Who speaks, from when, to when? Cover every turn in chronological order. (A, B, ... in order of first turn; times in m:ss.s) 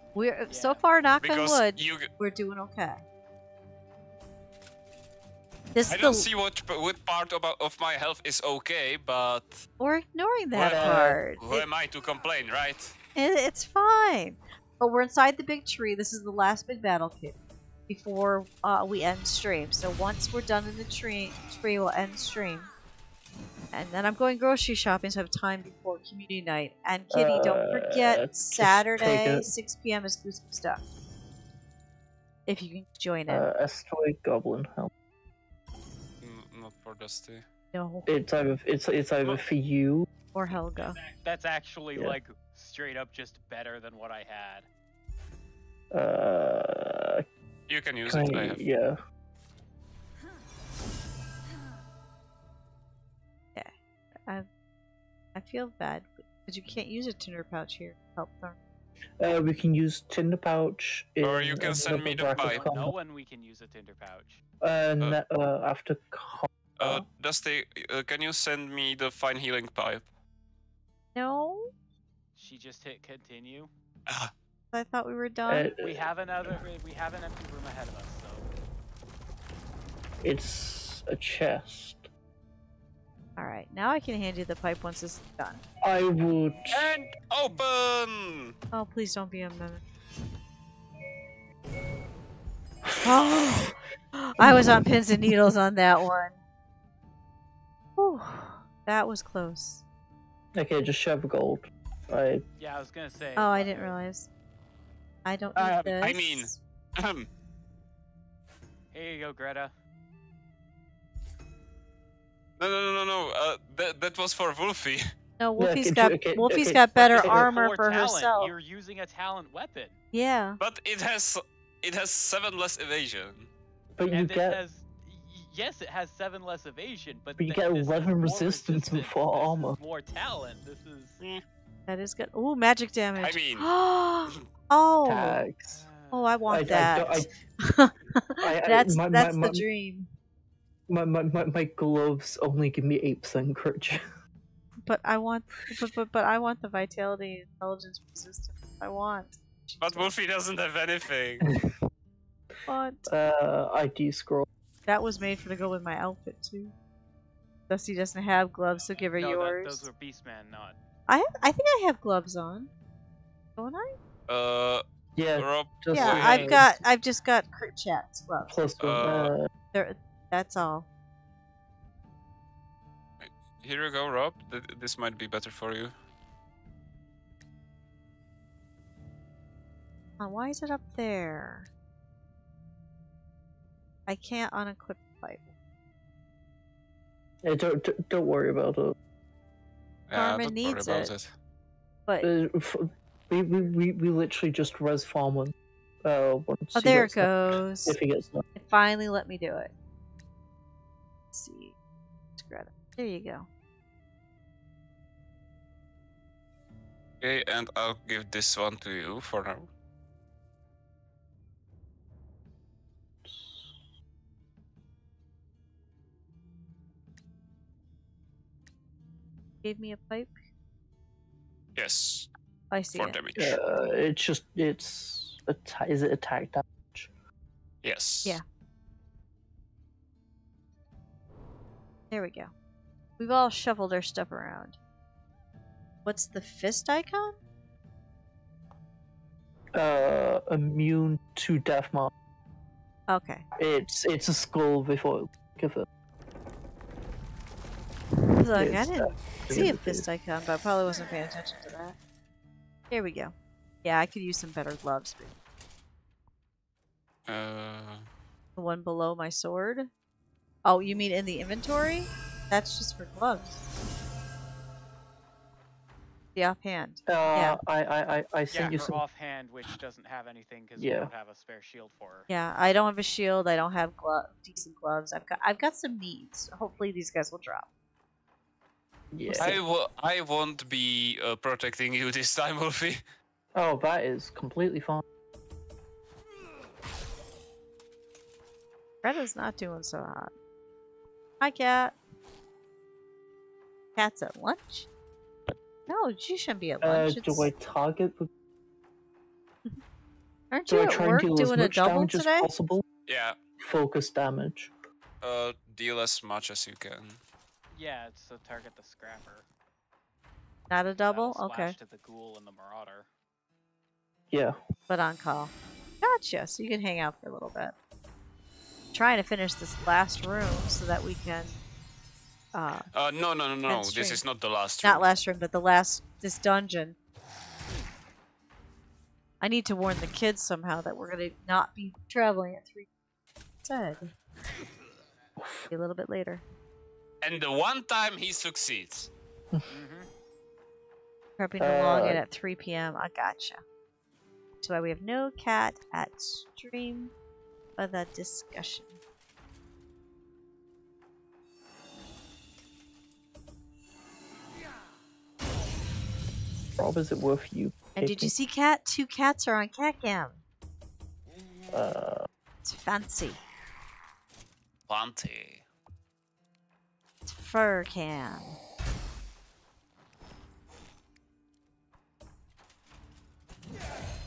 0:00.1-0:03.0 A
0:00.5-0:00.8 B
0:01.2-0:02.1 C
0:05.7-0:06.3 A
0:05.9-0:09.6 C
0:09.8-0:11.6 A
0:10.5-0:12.9 C
0:10.7-0:11.2 D
0:13.1-0:17.4 A
0:17.9-0:22.7 A
0:23.7-0:30.8 A
0:27.1-0:29.5 D
0:32.5-0:33.4 A
0:33.3-0:34.9 D
0:36.2-0:37.4 C
0:37.7-0:38.2 A
0:38.0-0:40.1 D
0:40.3-0:41.0 A
0:40.8-0:44.7 B
0:45.9-0:47.2 D
0:47.7-0:48.6 C
0:48.0-0:49.0 D
0:55.3-0:58.6 A
0:59.2-1:02.9 D
1:01.2-1:02.6 C
1:02.3-1:04.4 B
1:04.6-1:07.0 D
1:06.8-1:10.1 C
1:11.1-1:11.7 A
1:12.4-1:13.7 B
1:14.1-1:14.3 C
1:14.7-1:15.7 A
1:15.5-1:16.6 D
1:15.8-1:18.5 B
1:20.2-1:22.1 D
1:23.4-1:25.6 A
1:25.8-1:26.8 D
1:26.7-1:28.5 C
1:28.7-1:29.8 A
1:32.8-1:33.8 D
1:33.0-1:36.4 A
1:34.4-1:35.5 D
1:38.0-1:39.8 A
1:40.5-1:42.4 D
1:42.6-1:44.0 B
1:43.4-1:44.3 A
1:45.2-1:46.6 A
1:45.6-1:47.3 C
1:48.9-1:49.7 B
1:52.6-1:55.0 C
1:55.4-1:58.5 A
1:55.6-1:57.5 D
1:57.0-2:00.0 B
2:00.1-2:00.6 A
2:00.6-2:03.5 C
2:04.0-2:04.6 D
2:04.1-2:11.2 B
2:07.4-2:09.8 D
2:11.9-2:15.4 A
2:13.2-2:13.7 C
2:15.0-2:15.8 D
2:15.7-2:16.4 B
2:16.1-2:20.1 A
2:16.5-2:17.3 D
2:18.4-2:19.6 D
2:20.9-2:24.0 D
2:24.8-2:30.1 A
2:29.8-2:31.5 C
2:31.4-2:31.7 D
2:32.7-2:33.1 A
2:33.1-2:34.4 D
2:34.9-2:36.7 A
2:37.7-2:39.9 A
2:39.0-2:40.8 B
2:41.1-2:42.7 A
2:43.6-2:43.9 A
2:44.3-2:44.8 C
2:45.2-2:46.7 D
2:45.4-2:46.6 C
2:45.9-2:48.6 A
2:48.5-2:49.5 D
2:48.8-2:49.3 C
2:49.7-2:50.9 A
2:53.2-2:55.9 C
3:00.2-3:01.7 A
3:04.1-3:05.5 A
3:07.4-3:08.9 D
3:10.1-3:11.3 C
3:10.1-3:11.1 A
3:12.2-3:18.4 D
3:16.7-3:18.0 A
3:18.5-3:19.7 A
3:21.3-3:21.7 A
3:22.4-3:23.5 A
3:27.2-3:29.7 C
3:33.2-3:33.7 D
3:39.6-3:40.4 A
3:41.8-3:42.3 C
3:42.7-3:43.2 A
3:42.9-3:43.6 C
3:43.4-3:47.1 D
3:47.8-3:48.4 C
3:52.1-3:52.5 A
3:53.2-3:54.8 A
3:56.0-3:57.4 A
3:59.7-4:02.1 D
4:03.1-4:03.4 A
4:03.6-4:05.8 D
4:08.3-4:12.0 A
4:08.5-4:10.0 D
4:12.9-4:15.3 A
4:17.3-4:18.0 C
4:18.6-4:19.9 A
4:20.6-4:23.6 A
4:26.3-4:27.6 A
4:27.0-4:29.0 D
4:28.5-4:32.3 B
4:30.8-4:31.1 D
4:32.3-4:37.7 A
4:39.1-4:39.6 D
4:39.2-4:39.5 A
4:39.4-4:43.0 C
4:43.5-4:45.0 D
4:49.0-4:50.3 A
4:51.4-4:51.9 A
4:54.0-4:54.9 A
4:55.9-4:57.5 A
4:56.8-4:58.3 D
5:00.5-5:02.5 A
5:00.7-5:02.8 D
5:03.1-5:03.4 C
5:03.6-5:04.7 D
5:05.2-5:07.2 C
5:07.7-5:09.4 B
5:10.7-5:11.7 A
5:11.0-5:13.1 B
5:14.3-5:14.6 D
5:14.9-5:17.7 A
5:18.9-5:21.6 A
5:22.5-5:22.9 A
5:22.9-5:25.1 C
5:23.7-5:24.2 A
5:24.8-5:27.0 A
5:29.4-5:32.9 A
5:33.6-5:34.1 A
5:35.4-5:35.7 D
5:35.7-5:36.4 A
5:37.2-5:39.1 C
5:39.7-5:40.1 B
5:41.4-5:43.6 A
5:41.6-5:42.2 D
5:44.6-5:47.1 A
5:47.8-5:49.0 A
5:56.8-5:58.3 D
5:58.0-6:00.4 A
6:01.7-6:02.3 D
6:02.6-6:03.4 A
6:04.9-6:05.6 C
6:07.2-6:08.6 A